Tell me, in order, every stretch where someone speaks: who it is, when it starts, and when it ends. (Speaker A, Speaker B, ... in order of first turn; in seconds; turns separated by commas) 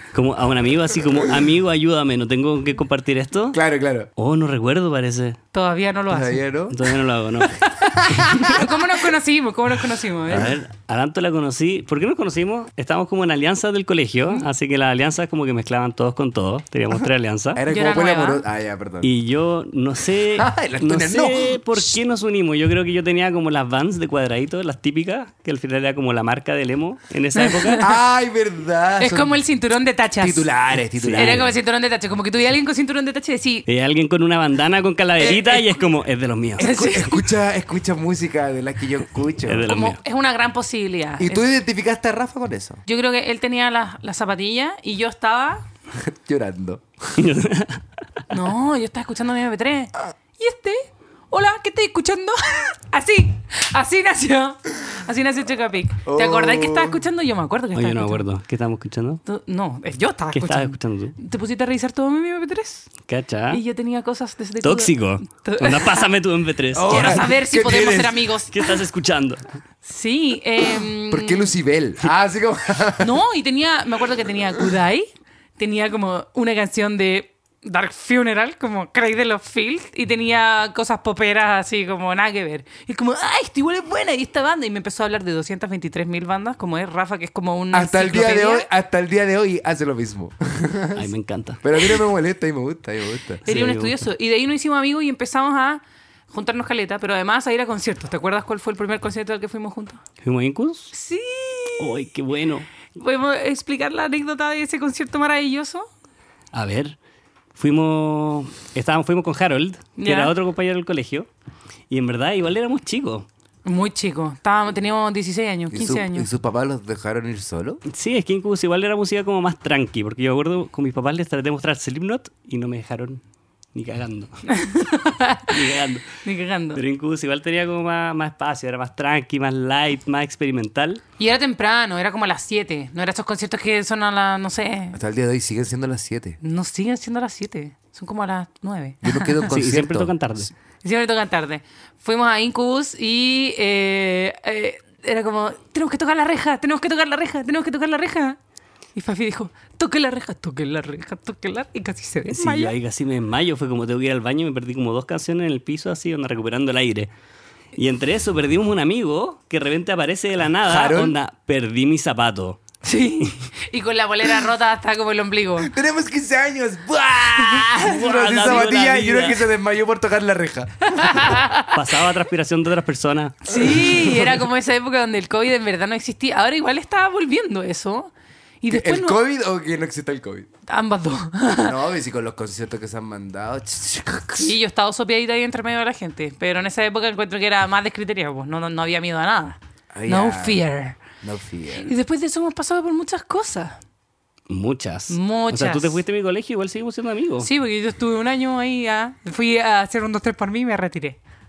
Speaker A: 0.1-3.6, Speaker B: 3.5-4.1, Speaker A: 4.2-5.4, Speaker C: 5.5-6.4, Speaker B: 6.1-6.8, Speaker A: 6.7-7.5, Speaker C: 7.6-10.5, Speaker B: 7.8-8.9, Speaker A: 10.3-17.6, Speaker B: 17.5-19.1, Speaker C: 17.7-18.4, Speaker A: 19.0-27.8, Speaker B: 20.3-21.9, Speaker C: 27.3-27.9, Speaker B: 27.8-29.3, Speaker C: 29.0-30.5, Speaker B: 30.2-31.5, Speaker A: 31.0-31.5, Speaker C: 31.1-33.6, Speaker A: 33.7-36.6, Speaker C: 35.2-35.8, Speaker C: 36.6-37.3, Speaker B: 36.6-39.7, Speaker A: 39.4-40.0, Speaker C: 39.7-41.5, Speaker B: 41.2-42.8, Speaker C: 42.9-45.6, Speaker B: 46.1-47.2, Speaker A: 47.2-48.2, Speaker C: 48.3-58.2, Speaker B: 56.0-57.0, Speaker A: 57.7-59.2, Speaker C: 59.3-63.0, Speaker A: 60.3-61.1, Speaker A: 63.0-63.6, Speaker C: 63.5-66.1, Speaker A: 64.6-67.2, Speaker B: 66.7-68.2, Speaker C: 66.8-68.8, Speaker A: 68.5-69.4, Speaker C: 69.8-71.5, Speaker B: 71.1-73.1, Speaker C: 73.0-88.7, Speaker B: 87.7-91.1, Speaker A: 90.9-91.6, Speaker B: 91.6-93.4, Speaker A: 93.4-94.0, Speaker C: 93.5-100.0, Speaker A: 100.2-100.9, Speaker C: 100.9-102.0, Speaker A: 101.8-102.7, Speaker C: 102.9-105.9, Speaker A: 106.5-107.0, Speaker A: 107.5-111.3, Speaker C: 110.0-110.3, Speaker A: 111.9-113.2, Speaker C: 113.6-116.3, Speaker B: 115.7-117.8, Speaker A: 117.9-123.2, Speaker A: 123.7-124.4, Speaker C: 124.5-125.6, Speaker A: 125.5-126.1, Speaker C: 126.2-126.8, Speaker A: 126.7-131.0, Speaker C: 131.2-135.0, Speaker B: 134.9-136.4, Speaker C: 136.4-139.5, Speaker B: 139.0-140.1, Speaker A: 139.5-140.5, Speaker C: 140.8-148.4, Speaker C: 148.9-152.7, Speaker A: 152.3-157.1, Speaker A: 157.7-162.6, Speaker B: 160.7-161.1, Speaker C: 162.8-165.7, Speaker B: 165.6-171.3, Speaker A: 167.8-169.5, Speaker C: 170.9-171.8, Speaker A: 171.7-173.6, Speaker C: 173.4-178.1, Speaker C: 178.6-179.2, Speaker B: 178.7-180.5, Speaker C: 180.7-181.8, Speaker B: 181.6-184.5, Speaker C: 184.3-191.0, Speaker B: 189.9-190.6, Speaker B: 191.2-191.9, Speaker C: 191.8-193.8, Speaker A: 194.5-197.5, Speaker C: 195.1-196.0, Speaker C: 197.4-201.2